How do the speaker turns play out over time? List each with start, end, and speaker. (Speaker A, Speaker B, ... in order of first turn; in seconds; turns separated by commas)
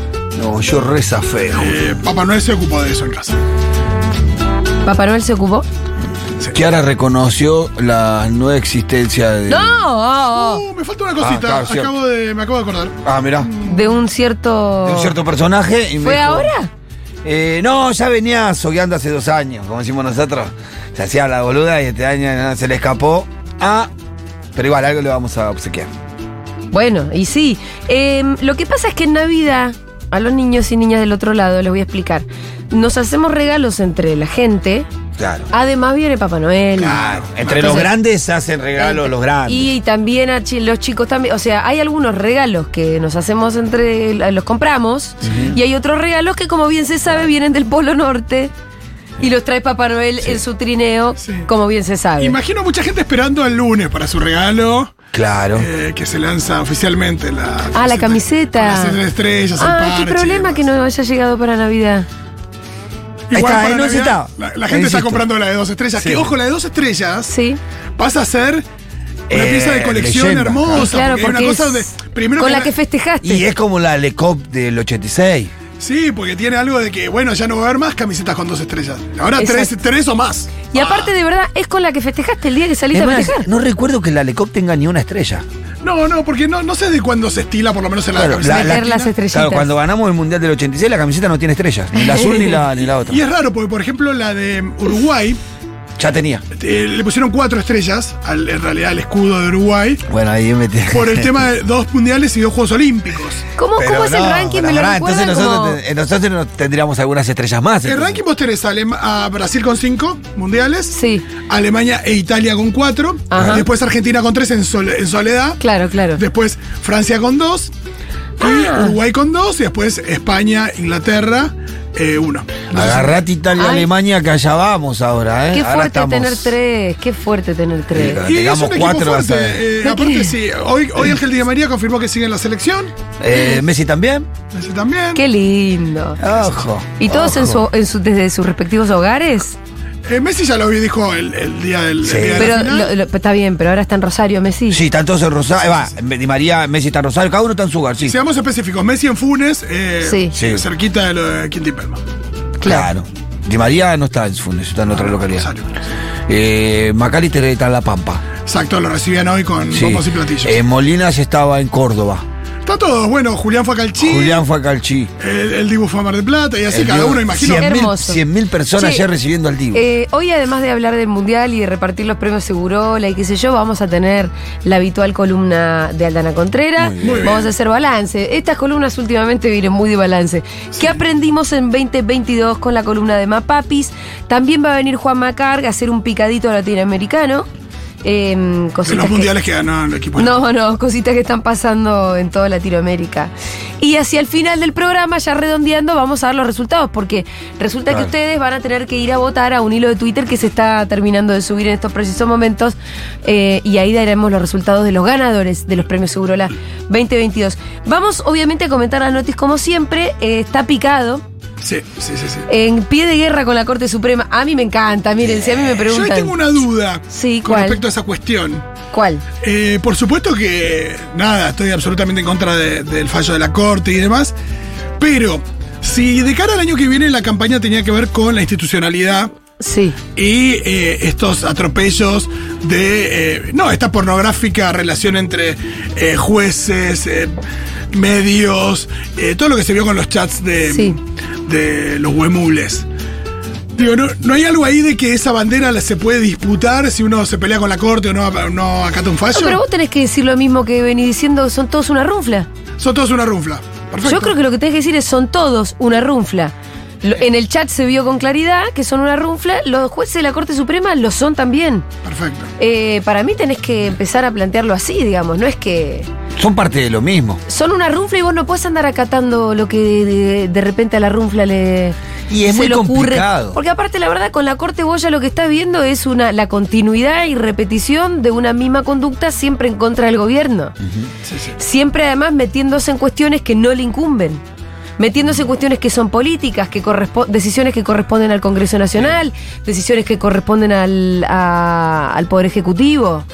Speaker A: 0.4-1.8, Speaker B: 1.5-3.4, Speaker C: 4.8-5.7, Speaker A: 6.5-9.8, Speaker C: 9.5-10.6, Speaker B: 10.4-13.9, Speaker A: 11.2-11.9, Speaker A: 13.0-13.5, Speaker C: 13.6-15.2, Speaker A: 14.8-16.5, Speaker C: 16.0-16.7, Speaker A: 17.2-23.9, Speaker A: 24.6-25.9, Speaker C: 26.7-34.9, Speaker A: 35.2-35.5, Speaker C: 35.5-37.9, Speaker B: 36.8-37.9, Speaker A: 36.8-39.7, Speaker C: 38.8-48.5, Speaker A: 45.2-45.6, Speaker C: 49.2-52.4, Speaker B: 51.2-51.5, Speaker B: 52.2-55.0, Speaker A: 55.1-55.7, Speaker B: 55.6-60.6, Speaker C: 57.7-59.0, Speaker C: 59.6-62.1, Speaker B: 63.3-67.3, Speaker A: 63.3-65.3, Speaker A: 66.0-66.3, Speaker C: 67.3-67.6, Speaker B: 68.0-68.7, Speaker A: 69.3-71.0, Speaker B: 69.3-72.7, Speaker C: 70.8-73.5, Speaker A: 73.2-75.5, Speaker B: 75.8-81.1, Speaker C: 79.4-79.8, Speaker C: 80.7-83.5, Speaker A: 82.9-85.5, Speaker B: 85.8-89.1, Speaker A: 88.1-93.2, Speaker C: 88.4-89.7, Speaker C: 92.0-92.6, Speaker B: 93.1-95.4, Speaker A: 96.0-96.4, Speaker B: 96.6-100.0, Speaker A: 100.1-101.3, Speaker B: 100.9-103.5, Speaker C: 103.6-105.8, Speaker A: 103.8-108.2, Speaker B: 107.8-115.6, Speaker C: 110.9-111.2, Speaker C: 113.3-113.7, Speaker A: 113.3-113.7, Speaker C: 115.6-116.2, Speaker B: 116.2-117.7, Speaker C: 118.4-119.0, Speaker B: 118.4-123.2, Speaker A: 122.7-126.5, Speaker C: 123.6-123.9, Speaker C: 125.5-128.2, Speaker A: 127.9-129.6, Speaker B: 128.2-132.9, Speaker C: 129.8-130.3, Speaker A: 133.2-134.3, Speaker B: 134.5-135.2, Speaker C: 135.2-136.2, Speaker A: 136.2-137.6, Speaker C: 137.0-139.6, Speaker B: 140.1-142.9, Speaker A: 142.0-142.6, Speaker C: 142.3-144.8, Speaker A: 144.7-148.2, Speaker B: 148.1-152.0, Speaker C: 150.0-150.3, Speaker A: 150.3-150.7, Speaker C: 152.6-152.9, Speaker A: 152.6-155.5, Speaker B: 154.9-155.8, Speaker A: 156.3-158.2, Speaker B: 158.4-160.6, Speaker A: 159.7-162.2, Speaker B: 162.6-164.4, Speaker A: 164.0-165.1, Speaker B: 165.2-167.6, Speaker A: 166.7-169.8, Speaker C: 167.3-168.2, Speaker C: 168.8-169.1, Speaker C: 169.7-187.5, Speaker A: 176.8-177.3, Speaker B: 177.0-177.5, Speaker C: 188.0-189.3, Speaker B: 188.8-190.3, Speaker C: 190.2-211.2, Speaker B: 211.6-212.5, Speaker C: 212.5-216.4, Speaker B: 215.8-218.6, Speaker C: 217.1-217.8, Speaker C: 218.9-219.2, Speaker B: 219.4-224.3, Speaker B: 225.0-229.3, Speaker C: 229.6-230.0, Speaker B: 230.1-237.4, Speaker B: 237.9-242.8, Speaker C: 240.7-241.0, Speaker B: 243.8-249.6, Speaker C: 249.3-252.5, Speaker B: 252.8-254.3, Speaker C: 254.0-261.9, Speaker B: 262.0-262.5, Speaker C: 262.6-266.1, Speaker A: 266.4-267.4, Speaker C: 267.5-280.7, Speaker A: 272.3-273.6, Speaker A: 280.8-281.1, Speaker B: 281.2-281.6, Speaker C: 281.6-284.4, Speaker C: 285.0-293.3